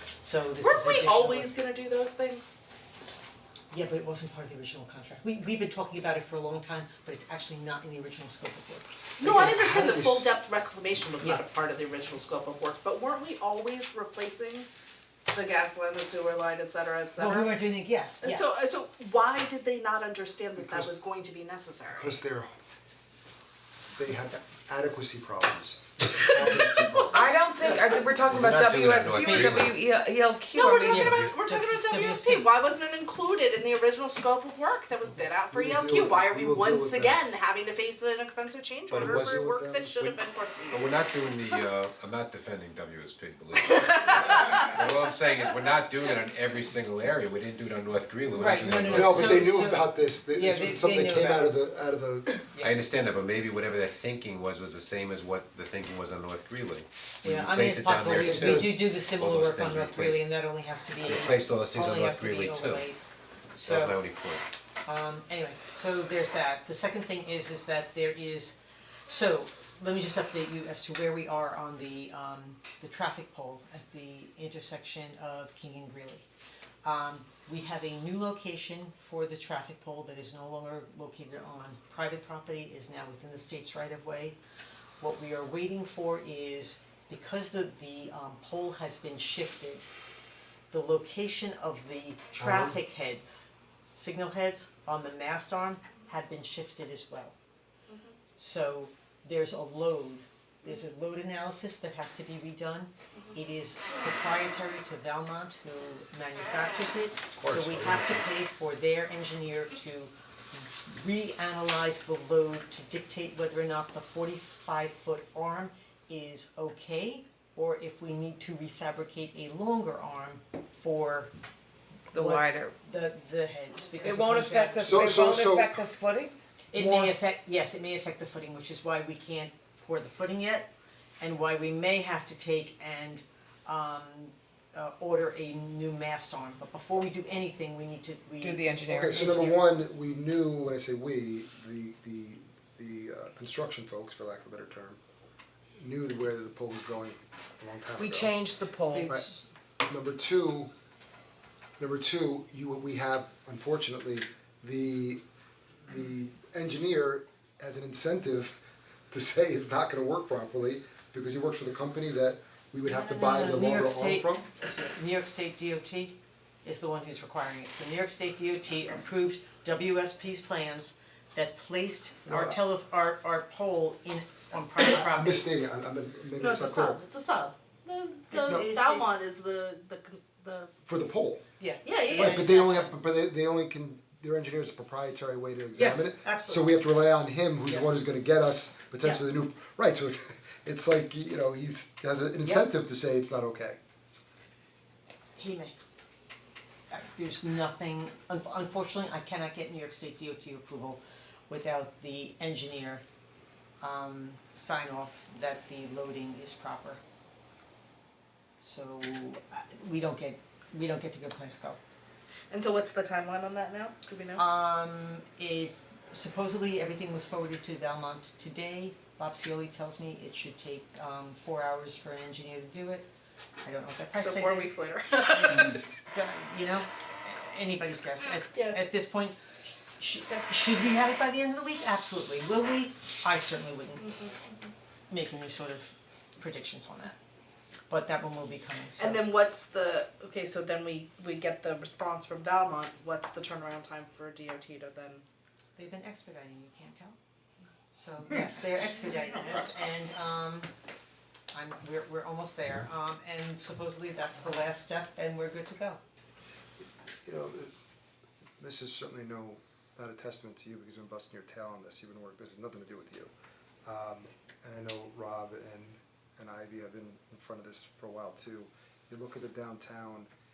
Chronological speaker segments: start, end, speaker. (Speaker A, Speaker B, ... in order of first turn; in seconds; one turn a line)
Speaker A: 0.2-1.5
Speaker B: 0.6-2.6
Speaker A: 3.7-9.5
Speaker B: 9.2-14.7
Speaker C: 9.2-10.2
Speaker B: 15.3-17.5
Speaker A: 17.2-18.6
Speaker B: 18.2-22.2
Speaker C: 20.6-21.0
Speaker C: 21.9-22.5
Speaker C: 23.9-28.1
Speaker B: 26.5-27.1
Speaker D: 27.1-31.3
Speaker E: 28.2-29.8
Speaker A: 29.1-29.7
Speaker B: 30.5-41.6
Speaker A: 30.8-32.5
Speaker E: 30.9-31.3
Speaker C: 35.4-37.2
Speaker E: 38.9-39.5
Speaker C: 38.9-39.9
Speaker E: 40.0-49.6
Speaker B: 43.7-44.7
Speaker A: 48.4-51.5
Speaker C: 48.9-52.4
Speaker A: 52.5-52.8
Speaker E: 52.6-60.3
Speaker A: 57.2-63.0
Speaker C: 58.1-58.7
Speaker E: 61.0-62.9
Speaker A: 63.5-64.0
Speaker E: 63.6-64.4
Speaker A: 64.8-68.5
Speaker A: 69.1-76.3
Speaker A: 76.8-84.4
Speaker A: 85.0-89.8
Speaker A: 90.7-97.3
Speaker C: 92.4-92.7
Speaker B: 97.9-98.1
Speaker A: 98.3-121.3
Speaker C: 107.4-108.2
Speaker D: 122.1-122.7
Speaker A: 122.1-125.1
Speaker D: 124.0-127.1
Speaker C: 124.8-125.8
Speaker A: 126.7-139.5
Speaker D: 138.4-139.5
Speaker C: 138.9-145.0
Speaker C: 145.8-148.4
Speaker D: 148.0-149.1
Speaker A: 148.9-149.4
Speaker C: 149.9-150.7
Speaker C: 151.8-155.2
Speaker C: 155.8-164.4
Speaker A: 162.8-175.4
Speaker C: 172.3-172.6
Speaker C: 174.8-177.0
Speaker B: 176.4-180.7
Speaker A: 178.3-179.2
Speaker C: 180.8-181.4
Speaker A: 181.6-182.9
Speaker B: 181.8-182.5
Speaker C: 182.1-193.8
Speaker A: 185.7-186.8
Speaker A: 187.6-188.0
Speaker A: 195.4-195.8
Speaker A: 196.9-203.0
Speaker A: 203.8-207.0
Speaker A: 208.6-211.8
Speaker B: 212.5-214.4
Speaker A: 214.3-223.1
Speaker A: 223.6-224.8
Speaker B: 224.1-225.8
Speaker A: 225.3-229.4
Speaker A: 230.0-234.1
Speaker B: 234.0-234.7
Speaker A: 235.1-237.2
Speaker A: 237.9-239.2
Speaker B: 239.0-245.2
Speaker A: 245.8-247.2
Speaker A: 247.9-250.7
Speaker A: 251.5-256.0
Speaker C: 257.2-257.7
Speaker C: 258.6-263.3
Speaker C: 263.8-270.3